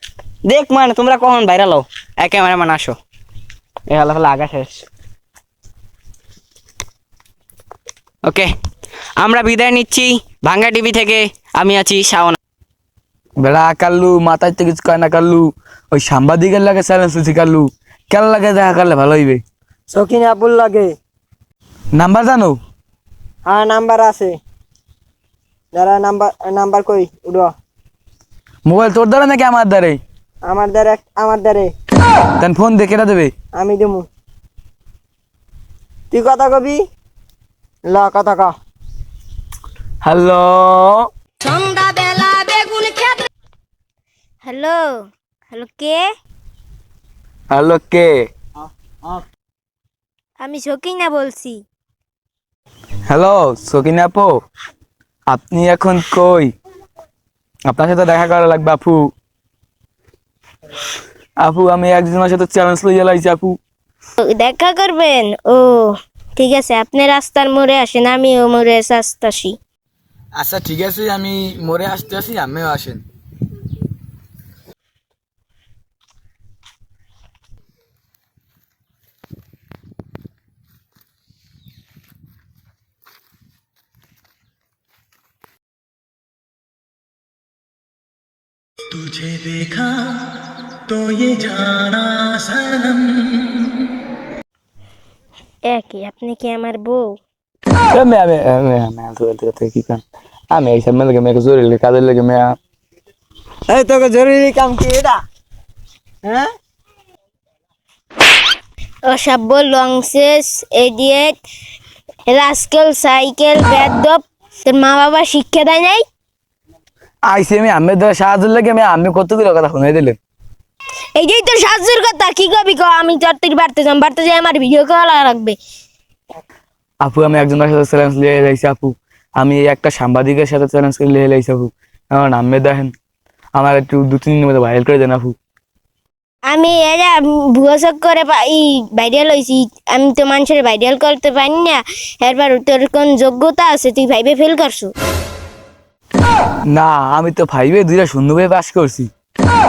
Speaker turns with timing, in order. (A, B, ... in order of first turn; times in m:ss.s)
0:00.4-0:03.0 A
0:03.9-0:04.8 A
0:08.2-0:08.5 A
0:09.2-0:12.4 A
0:13.4-0:19.4 B
0:19.9-0:20.9 C
0:22.0-0:22.6 B
0:23.5-0:24.4 C
0:25.7-0:27.5 C
0:28.6-0:30.0 B
0:30.4-0:31.7 C
0:32.4-0:33.3 B
0:33.5-0:34.1 C
0:36.1-0:36.8 C
0:37.9-0:38.5 C
0:40.0-0:41.0 B
0:41.6-0:43.0 D
0:44.4-0:46.0 D
0:47.5-0:48.1 B
0:50.4-0:51.6 D
0:53.1-0:54.3 B
0:55.3-0:56.5 B
0:57.7-0:59.1 B
1:01.4-1:03.6 B
1:04.2-1:09.6 D
1:10.4-1:13.0 B
1:28.9-1:30.1 B
1:30.9-1:33.2 B
1:35.7-1:37.2 D
1:37.9-1:42.4 B
1:43.7-1:45.2 C
1:49.1-1:51.4 D
1:52.3-1:56.0 D
1:57.3-2:00.2 B
2:01.2-2:05.6 D
2:07.0-2:12.9 B
2:13.6-2:15.4 B
2:16.5-2:24.9 D
2:26.7-2:29.1 B